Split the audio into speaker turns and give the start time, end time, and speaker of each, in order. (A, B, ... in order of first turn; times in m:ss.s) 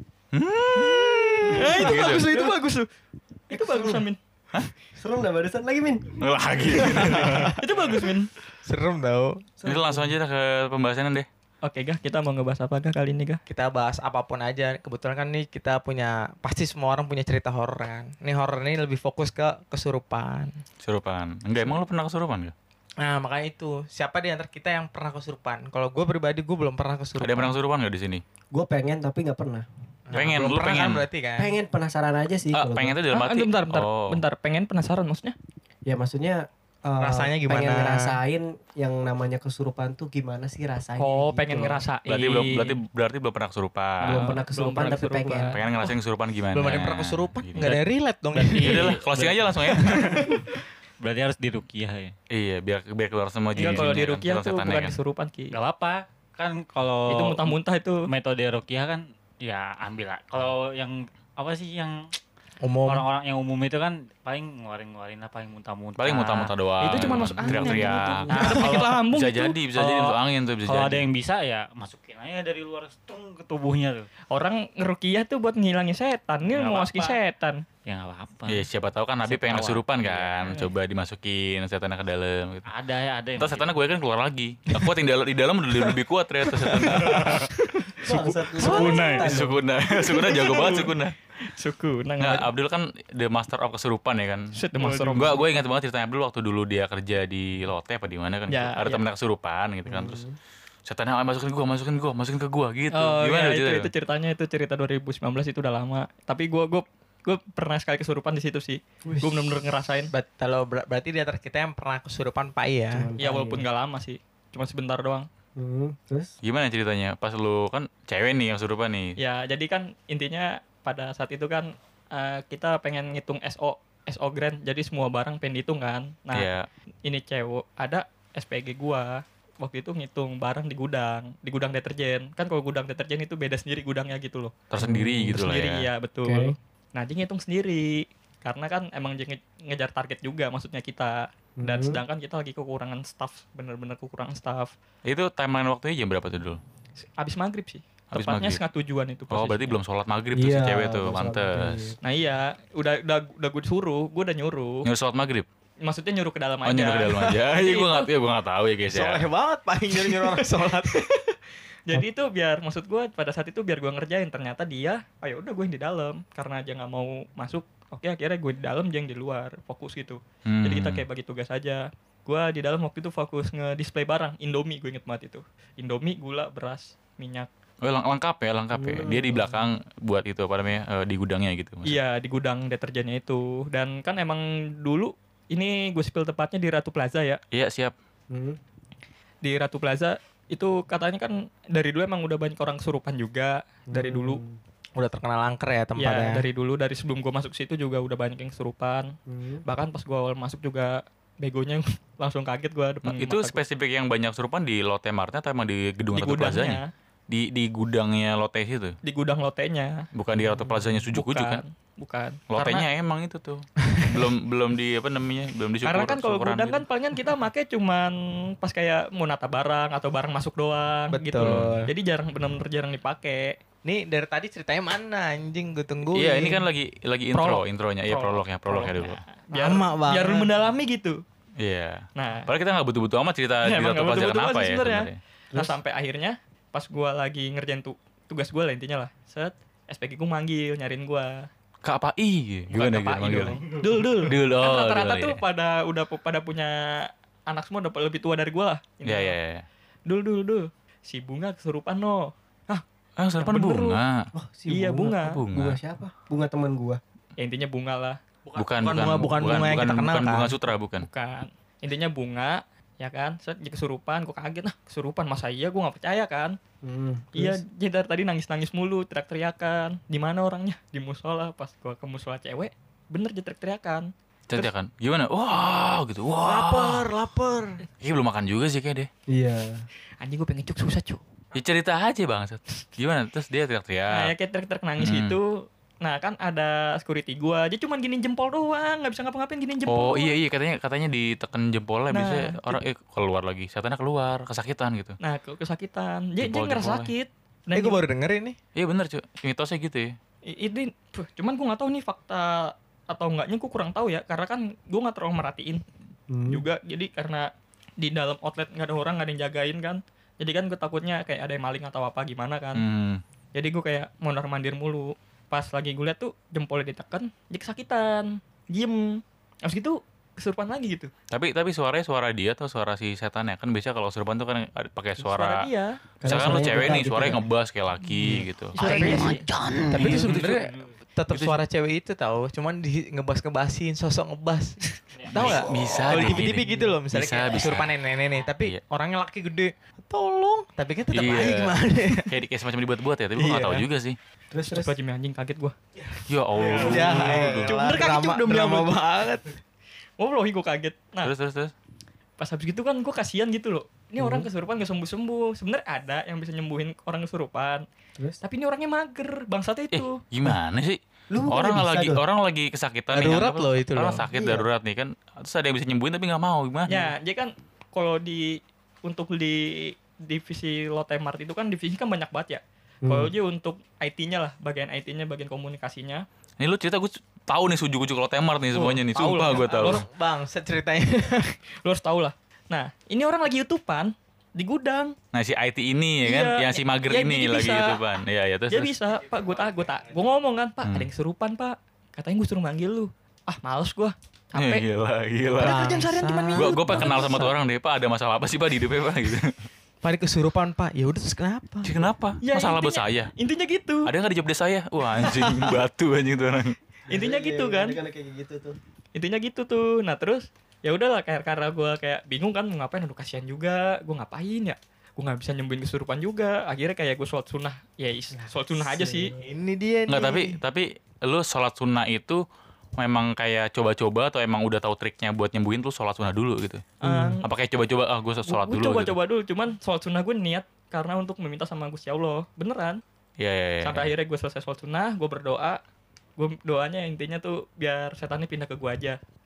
0:00.3-0:02.3 A
0:01.5-0:02.9 B
0:01.8-0:02.4 C
0:03.5-0:04.2 B
0:03.5-0:04.0 D
0:05.0-0:07.5 D
0:06.2-0:07.6 A
0:07.1-0:07.5 C
0:07.6-0:08.3 B
0:08.6-0:09.5 C
0:09.6-0:10.1 D
0:09.6-0:11.3 A
0:11.6-0:13.4 B
0:13.5-0:20.5 C
0:20.8-0:22.5 A
0:23.0-0:27.5 C
0:27.2-0:28.2 A
0:28.5-0:29.6 D
0:30.1-0:31.5 C
0:30.1-0:31.0 A
0:31.4-0:33.0 D
0:32.5-0:34.2 A
0:33.1-0:35.3 B
0:35.8-0:41.8 D
0:37.0-0:38.2 C
0:41.0-0:42.8 B
0:42.1-0:44.2 A
0:44.0-0:45.5 D
0:44.1-0:45.6 B
0:45.5-0:47.7 A
0:46.5-0:49.0 C
0:47.6-0:50.4 E
0:48.5-0:50.2 A
0:49.7-0:50.4 C
0:51.0-0:52.1 E
0:52.3-0:55.0 A
0:53.5-0:55.5 B
0:53.6-0:53.9 E
0:55.5-1:02.0 E
0:57.1-0:58.0 B
1:02.6-1:03.1 C
1:02.8-1:08.9 E
1:06.0-1:11.1 A
1:06.8-1:09.6 B
1:09.8-1:14.1 E
1:14.3-1:17.6 B
1:16.5-1:17.2 E
1:17.8-1:18.7 E
1:18.5-1:22.6 A
1:19.2-1:20.7 E
1:22.6-1:23.8 E
1:23.4-1:27.5 A
1:26.7-1:27.9 B
1:26.8-1:27.5 E
1:28.0-1:29.6 D
1:28.1-1:29.3 E
1:28.6-1:29.2 B
1:29.2-1:31.2 A
1:30.0-1:32.5 B
1:32.2-1:34.6 A
1:34.5-1:35.4 B
1:34.8-1:35.4 E
1:35.2-1:40.2 A
1:38.5-1:39.0 B
1:39.8-1:40.4 D
1:40.8-1:43.9 A
1:42.9-1:50.1 B
1:49.0-1:49.6 D
1:50.1-1:53.1 C
1:52.9-1:53.6 D
1:53.2-1:55.3 B
1:55.6-1:56.3 D
1:56.4-1:59.2 A
1:59.2-2:06.5 B
2:06.3-2:06.7 A
2:07.0-2:14.5 B
2:14.7-2:15.9 A
2:14.8-2:15.4 D
2:15.3-2:24.7 B
2:16.2-2:16.5 D
2:21.6-2:22.0 D
2:25.0-2:26.6 A
2:27.2-2:29.8 B
2:28.1-2:28.6 A
2:29.3-2:32.0 A
2:30.3-2:32.0 D
2:32.0-2:34.9 B
2:34.8-2:35.4 A
2:35.8-2:38.1 B
2:36.6-2:39.2 A
2:38.9-2:41.0 C
2:40.0-2:41.4 B
2:41.9-2:57.5 B
2:50.4-2:51.0 A
2:57.8-3:02.0 A
2:58.7-2:59.6 D
3:01.8-3:07.4 B
3:07.5-3:07.9 A
3:08.3-3:08.6 D
3:09.4-3:14.4 B
3:13.9-3:14.6 D
3:15.0-3:16.4 C
3:16.0-3:19.1 B
3:19.3-3:19.6 D
3:19.6-3:23.6 B
3:23.0-3:29.0 A
3:26.1-3:26.9 B
3:29.0-3:30.0 B
3:30.1-3:31.6 A
3:31.1-3:32.8 B
3:32.5-3:36.8 A
3:35.8-3:43.6 B
3:41.1-3:41.9 C
3:41.4-3:41.8 A
3:43.8-3:46.6 C
3:46.1-3:49.2 A
3:47.3-3:51.2 B
3:49.5-3:50.5 C
3:51.6-3:55.2 A
3:52.2-3:52.5 B
3:53.6-4:01.5 B
3:55.5-3:55.8 D
4:01.8-4:05.4 A
4:02.7-4:09.3 B
4:09.0-4:09.6 A
4:10.0-4:12.8 B
4:13.2-4:14.3 A
4:13.4-4:14.0 B
4:14.3-4:17.0 D
4:14.7-4:15.4 B
4:15.2-4:15.8 A
4:17.4-4:18.2 B
4:18.4-4:20.6 C
4:18.6-4:21.1 A
4:21.0-4:26.6 B
4:26.8-4:27.6 D
4:27.3-4:34.7 B
4:34.5-4:37.1 A
4:36.4-4:37.8 C
4:38.0-4:39.1 A
4:39.3-4:39.8 D
4:40.2-4:41.2 B
4:41.5-4:44.3 A
4:44.1-4:50.3 B
4:45.0-4:45.4 A
4:49.9-4:55.2 A
4:52.1-4:52.8 B
4:55.2-4:58.0 B
4:56.4-4:57.1 A
4:57.7-4:58.6 C
4:58.7-5:00.1 A
5:00.4-5:05.8 B
5:06.3-5:06.6 D
5:06.5-5:12.8 B
5:12.7-5:13.2 A
5:13.5-5:21.1 B
5:21.3-5:25.7 A
5:25.2-5:25.9 B
5:26.2-5:27.4 D
5:26.2-5:28.8 A
5:28.2-5:29.3 C
5:28.7-5:29.5 B
5:28.8-5:30.9 E
5:29.9-5:42.3 C
5:30.0-5:30.5 A
5:31.3-5:31.6 A
5:35.2-5:35.6 E
5:35.3-5:37.9 A
5:41.1-5:44.2 A
5:43.4-5:43.8 C
5:44.5-5:44.9 D
5:44.7-5:45.7 B
5:46.3-5:47.7 A
5:46.6-5:49.6 C
5:46.7-5:49.0 B
5:46.9-5:47.3 D
5:50.2-5:51.3 B
5:51.2-5:51.7 A
5:52.4-5:57.8 B
5:54.2-5:54.5 D
5:58.4-6:00.2 B
5:59.9-6:06.9 A
6:01.3-6:02.2 D
6:03.1-6:04.3 C
6:04.3-6:04.7 D
6:06.9-6:16.2 B
6:13.0-6:13.3 D
6:16.6-6:20.0 A
6:18.7-6:20.0 B
6:19.3-6:21.6 C
6:21.8-6:25.2 B
6:25.3-6:29.0 A
6:26.2-6:28.0 B
6:28.7-6:34.8 B
6:30.8-6:31.1 A
6:34.6-6:35.8 A
6:35.6-6:37.5 C
6:35.6-6:37.5 B
6:36.5-6:39.5 A
6:40.0-6:41.9 C
6:41.8-6:43.3 A
6:42.4-6:44.1 B
6:44.0-6:46.8 A
6:45.1-6:45.8 B
6:47.1-6:48.0 B
6:47.1-6:48.8 D
6:49.1-6:59.3 B
6:58.3-6:59.4 D
6:59.4-7:00.6 C
7:00.1-7:02.4 A
7:03.0-7:06.8 A
7:07.0-7:07.4 B
7:07.0-7:07.4 D
7:07.4-7:09.1 A
7:08.5-7:13.0 B
7:13.4-7:14.1 A
7:13.8-7:15.8 B
7:16.4-7:19.2 B